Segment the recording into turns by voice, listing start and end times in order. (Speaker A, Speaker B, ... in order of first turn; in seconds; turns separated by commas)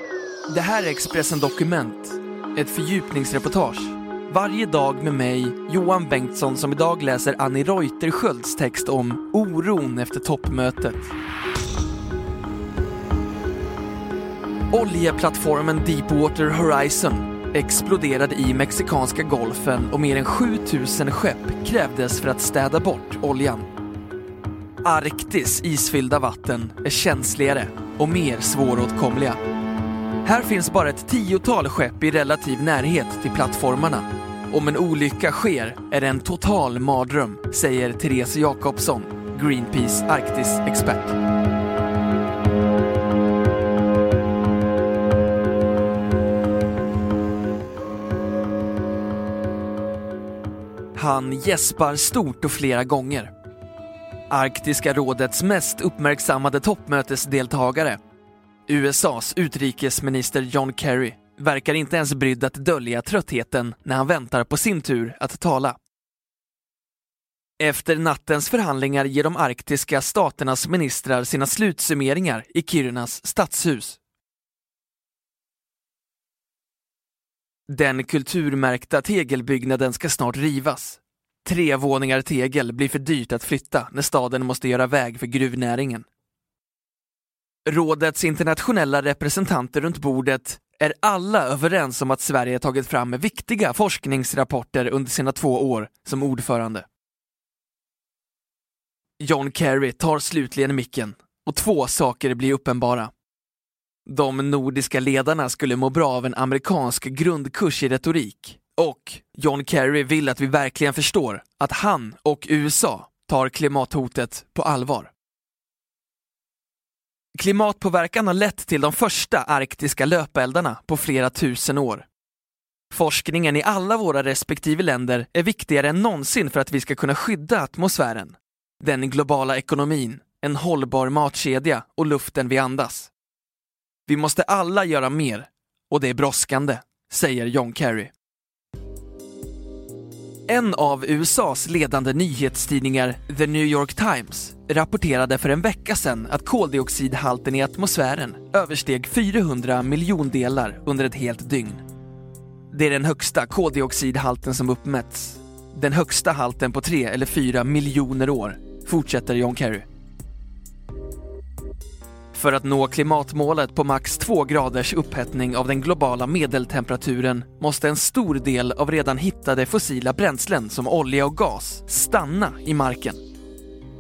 Speaker A: 0.5-11.1, Speaker A: 14.7-23.7, Speaker A: 24.8-29.4, Speaker A: 30.2-41.2, Speaker A: 51.0-53.3, Speaker A: 54.3-58.0, Speaker A: 58.7-65.8, Speaker A: 67.6-74.0, Speaker A: 77.7-86.0, Speaker A: 87.7-96.8, Speaker A: 99.2-103.1, Speaker A: 104.1-115.1, Speaker A: 117.4-122.1, Speaker A: 122.9-133.1, Speaker A: 134.1-138.1, Speaker A: 140.5-151.8, Speaker A: 152.7-159.9, Speaker A: 162.3-173.2